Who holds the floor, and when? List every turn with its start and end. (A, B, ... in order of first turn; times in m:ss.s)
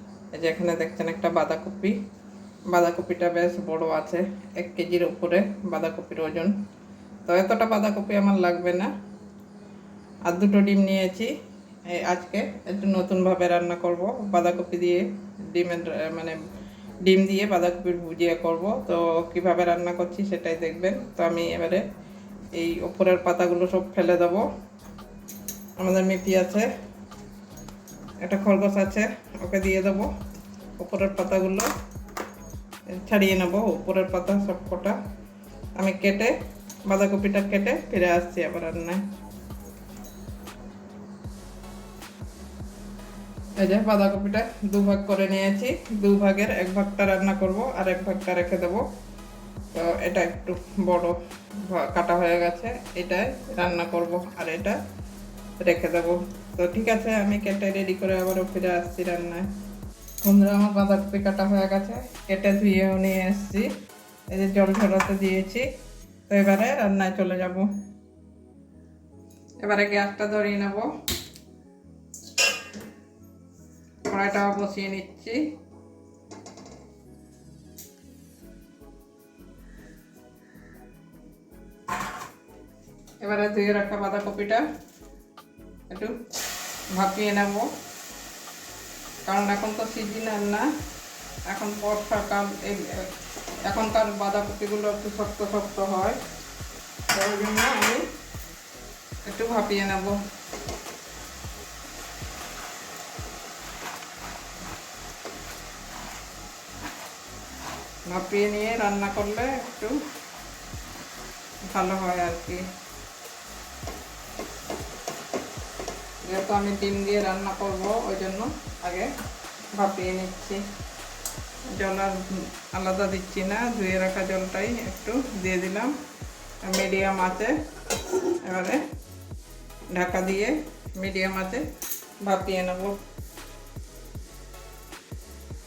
0:00.3-0:02.0 A
0:02.7-0:06.6 A
0:07.3-0:08.9 A
0:10.3-0:11.3 A
0:11.9-0:16.4 A
0:17.0-0:21.8 A
0:22.6-0:24.5 A
0:25.8-0:26.7 A
0:28.2-0:30.1 A
0:30.8-0:31.7 A
0:32.9-0:35.0 A
0:35.8-0:36.3 A
0:36.9-0:39.0 A
0:43.6-0:48.9 A
0:49.7-0:54.8 A
0:55.6-0:59.5 A
1:00.2-1:03.7 A
1:04.3-1:05.7 A
1:06.3-1:07.7 A
1:09.6-1:11.0 A
1:14.1-1:15.5 A
1:23.2-1:24.6 A
1:25.9-1:26.2 A
1:26.9-1:27.7 A
1:29.3-1:30.7 A
1:31.5-1:33.1 A
1:33.6-1:36.2 A
1:37.1-1:38.0 A
1:39.3-1:40.2 A
1:48.1-1:50.0 A
1:51.7-1:52.6 A
1:56.2-1:59.1 A
1:59.8-2:00.6 A
2:01.7-2:05.9 A
2:06.6-2:07.6 A
2:08.2-2:08.9 A
2:09.9-2:11.6 A
2:12.2-2:13.0 A